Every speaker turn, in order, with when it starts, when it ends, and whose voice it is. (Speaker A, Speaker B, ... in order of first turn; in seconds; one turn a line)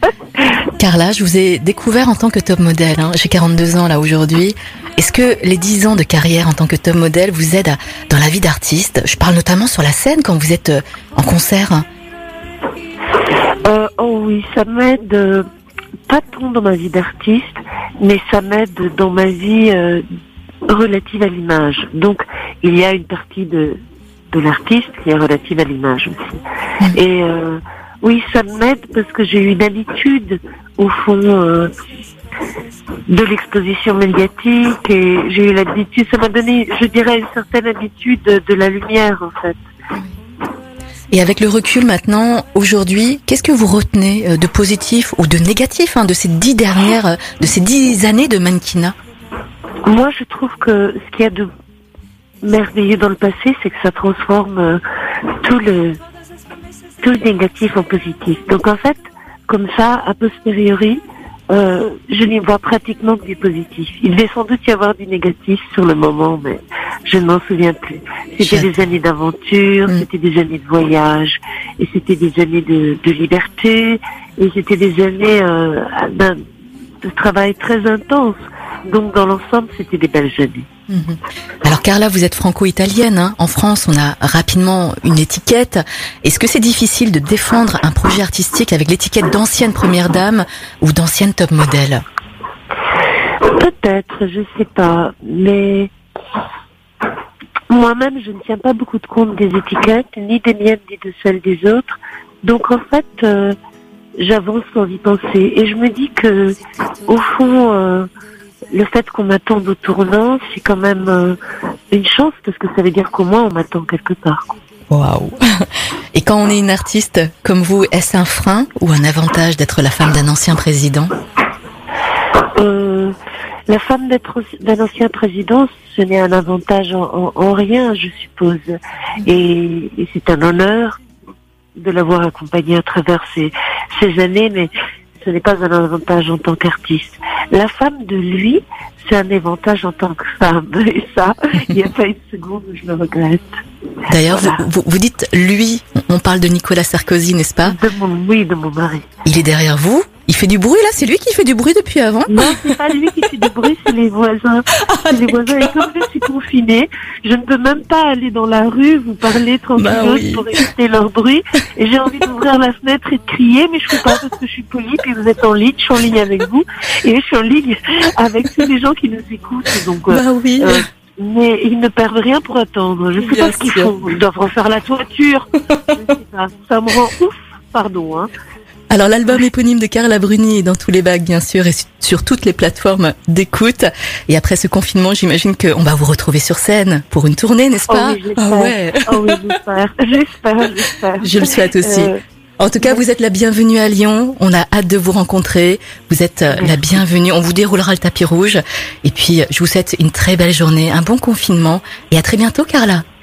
Speaker A: 0.8-11.8
Speaker B: 13.6-15.4
Speaker B: 16.1-20.0
Speaker B: 20.7-23.8
Speaker B: 24.3-26.4
Speaker B: 26.9-31.7
Speaker B: 33.1-39.6
Speaker A: 41.1-48.9
Speaker B: 49.8-51.5
Speaker B: 52.4-54.8
Speaker B: 55.4-56.0
Speaker B: 57.0-76.4
Speaker A: 68.4-68.7
Speaker B: 77.0-80.7
Speaker A: 80.9-92.0
Speaker B: 93.5-95.9
Speaker B: 97.7-103.5
Speaker B: 104.2-108.1
Speaker B: 108.7-111.4
Speaker B: 111.9-114.5
Speaker A: 114.9-115.4
Speaker A: 116.1-121.1
Speaker B: 122.5-123.1
Speaker B: 123.7-131.0
Speaker B: 131.8-143.6
Speaker A: 144.1-147.8
Speaker B: 144.3-144.6
Speaker B: 147.6-149.1
Speaker A: 149.2-152.6
Speaker B: 152.3-178.3
Speaker A: 154.9-155.8
Speaker A: 159.8-160.7
Speaker A: 170.1-170.8
Speaker A: 173.2-173.9
Speaker A: 178.9-189.5
Speaker B: 187.9-192.2
Speaker A: 191.2-203.0
Speaker B: 196.5-197.0